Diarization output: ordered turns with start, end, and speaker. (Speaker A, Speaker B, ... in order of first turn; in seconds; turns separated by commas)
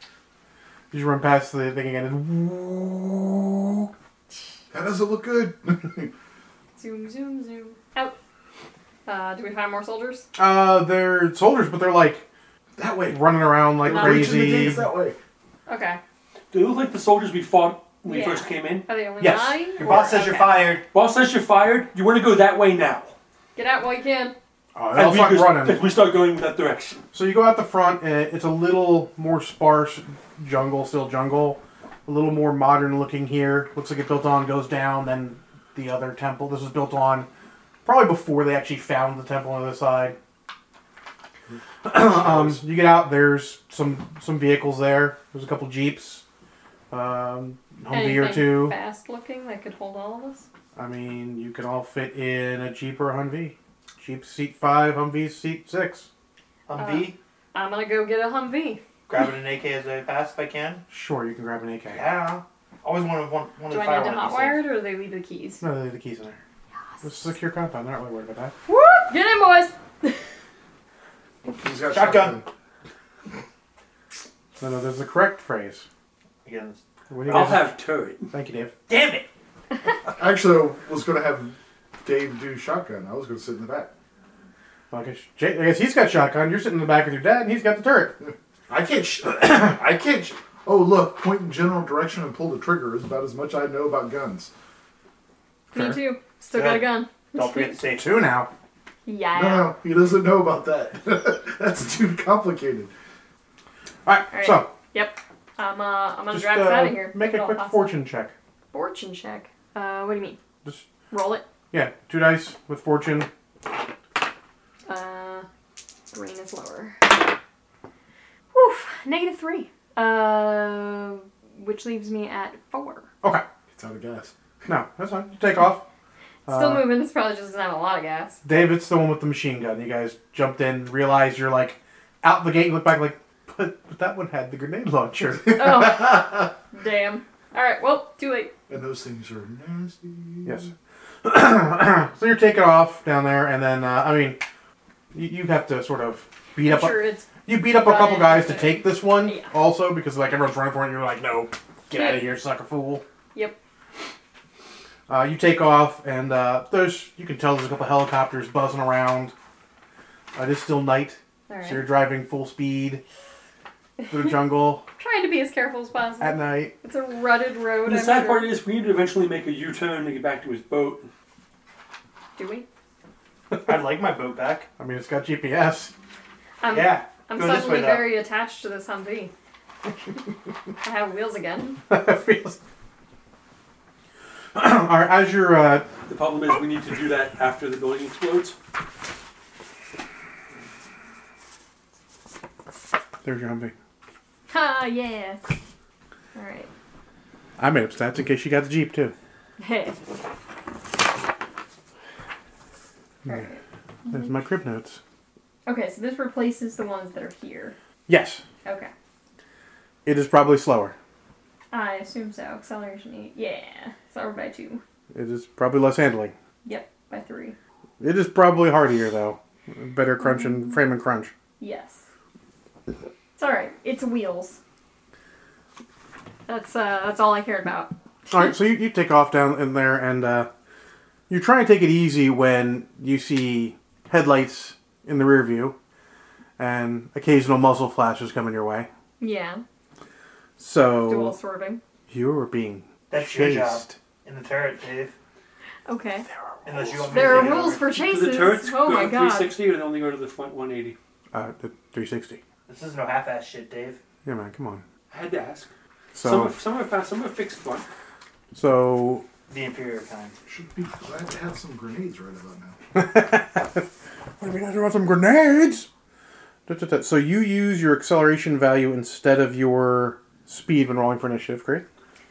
Speaker A: 0.9-3.9, Speaker B: 4.7-6.1, Speaker C: 6.8-8.1, Speaker C: 9.1-10.3, Speaker A: 10.3-12.2, Speaker B: 12.8-15.2, Speaker A: 13.1-14.9, Speaker C: 13.8-14.5, Speaker C: 15.7-16.0, Speaker D: 16.5-18.9, Speaker C: 18.0-20.8, Speaker A: 19.2-19.7, Speaker E: 19.8-20.8, Speaker D: 20.9-23.1, Speaker C: 23.5-24.3, Speaker A: 24.7-25.9, Speaker D: 24.9-27.0, Speaker A: 27.1-37.3, Speaker A: 37.8-40.2, Speaker B: 41.5-42.6, Speaker A: 41.8-46.2, Speaker A: 46.9-48.8, Speaker C: 47.9-50.5, Speaker A: 50.7-56.1, Speaker E: 56.7-57.2, Speaker C: 56.8-58.8, Speaker E: 59.1-60.8, Speaker A: 60.9-62.0, Speaker E: 61.9-64.7, Speaker C: 63.7-65.6, Speaker A: 65.6-66.4, Speaker A: 67.0-68.5, Speaker C: 68.7-70.2, Speaker B: 71.4-72.5, Speaker E: 71.8-72.4, Speaker A: 74.6-75.9, Speaker E: 76.4-76.8, Speaker A: 77.1-77.7, Speaker D: 77.3-78.3, Speaker A: 78.3-78.7, Speaker E: 78.9-79.3, Speaker B: 80.2-83.9, Speaker A: 84.9-88.2, Speaker B: 88.2-94.5, Speaker C: 95.7-97.8, Speaker A: 95.7-96.0, Speaker E: 96.5-98.2, Speaker A: 98.0-98.5, Speaker C: 99.0-99.7, Speaker B: 99.3-102.9, Speaker A: 104.0-104.7, Speaker C: 104.3-108.0, Speaker A: 106.3-108.3, Speaker C: 108.7-110.4, Speaker C: 111.1-111.4, Speaker A: 111.7-113.3, Speaker C: 114.8-115.5, Speaker C: 116.1-117.0, Speaker C: 118.5-123.1, Speaker B: 123.7-124.3, Speaker A: 124.7-125.8, Speaker A: 126.5-127.0, Speaker C: 126.5-128.4, Speaker A: 128.4-136.1, Speaker C: 135.5-138.5, Speaker B: 138.7-140.7, Speaker A: 140.4-140.7, Speaker A: 141.2-144.4, Speaker A: 145.1-153.0, Speaker C: 146.6-149.5, Speaker C: 151.9-152.3, Speaker A: 155.1-159.3, Speaker A: 160.3-163.0, Speaker C: 161.5-161.8, Speaker A: 164.1-164.8, Speaker C: 165.0-168.6, Speaker A: 166.2-166.7, Speaker D: 167.8-171.1, Speaker C: 172.3-172.7, Speaker E: 173.6-174.7, Speaker A: 174.8-175.9, Speaker C: 176.6-179.3, Speaker E: 176.7-178.2, Speaker C: 180.8-181.8, Speaker A: 181.9-182.6, Speaker A: 184.5-185.9, Speaker D: 186.1-188.6, Speaker A: 193.2-193.7, Speaker C: 194.5-195.4, Speaker C: 196.3-196.7, Speaker A: 197.6-199.1, Speaker C: 199.6-200.0, Speaker C: 203.2-204.3, Speaker A: 204.1-205.0, Speaker C: 205.7-207.8, Speaker A: 208.1-208.4, Speaker C: 208.6-208.9, Speaker A: 210.0-210.9, Speaker C: 211.7-214.8, Speaker A: 215.1-216.3, Speaker C: 216.6-217.6, Speaker A: 218.0-221.3, Speaker C: 220.3-220.6, Speaker C: 221.6-222.0, Speaker C: 223.4-224.6, Speaker C: 226.5-228.3, Speaker A: 228.3-230.5, Speaker A: 231.3-235.8, Speaker A: 236.6-238.9, Speaker C: 239.2-239.6, Speaker A: 240.6-241.4, Speaker C: 241.0-241.8, Speaker A: 242.1-243.9, Speaker E: 243.1-245.1, Speaker C: 245.8-246.2, Speaker A: 246.3-247.6, Speaker E: 246.6-247.9, Speaker C: 247.1-249.5, Speaker D: 247.8-251.0, Speaker A: 251.3-252.4, Speaker E: 252.7-254.0, Speaker A: 254.2-254.8, Speaker D: 255.1-257.9, Speaker A: 256.1-256.6, Speaker A: 258.5-259.2, Speaker E: 259.5-260.4, Speaker B: 260.4-262.8, Speaker A: 262.9-263.9, Speaker A: 264.4-265.9, Speaker A: 266.7-271.8